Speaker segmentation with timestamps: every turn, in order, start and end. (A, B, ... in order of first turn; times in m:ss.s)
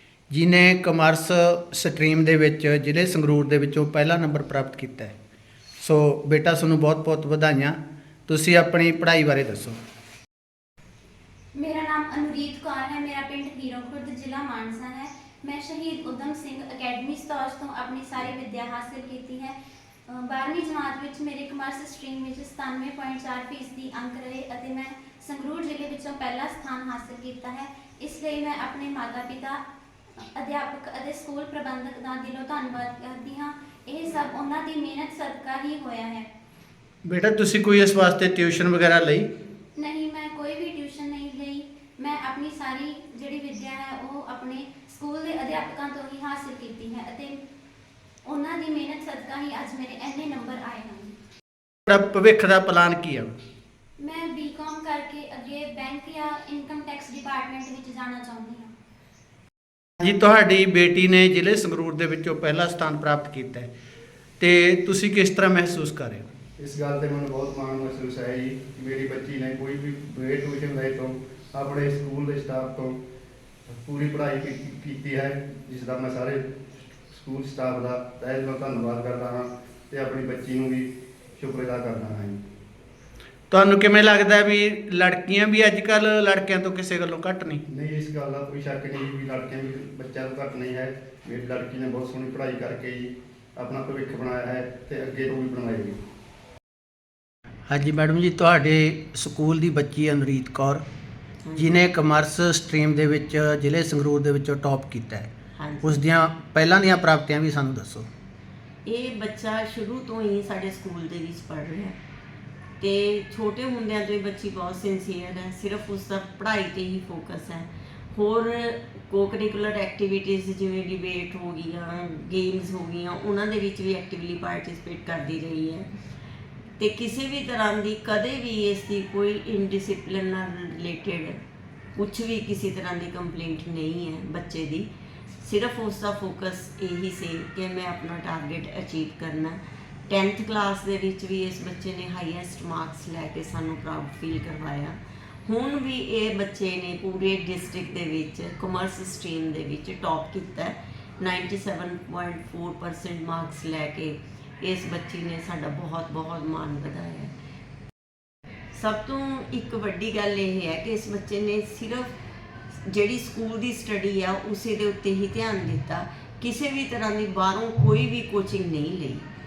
0:00.3-0:05.1 A
0:05.8-0:09.8 A
0:11.5-0:19.6 B
0:20.1-0:29.6 B
0:30.2-0:36.3 B
0:37.0-0:39.3 A
0:39.8-0:47.4 B
0:48.2-0:51.2 B
0:51.9-0:53.3 A
0:54.0-0:58.7 B
1:00.0-1:03.7 A
1:04.4-1:06.3 A
1:06.6-1:13.0 C
1:13.7-1:16.4 C
1:17.1-1:22.4 C
1:23.5-1:27.6 A
1:27.7-1:36.0 C
1:37.7-1:40.8 A
1:41.6-1:45.3 A
1:45.6-1:46.0 D
1:45.8-1:48.1 A
1:48.8-1:52.0 D
1:52.8-2:05.9 D
2:06.8-2:11.4 D
2:12.0-2:37.3 D
2:38.7-2:42.2 D
2:42.8-2:49.2 D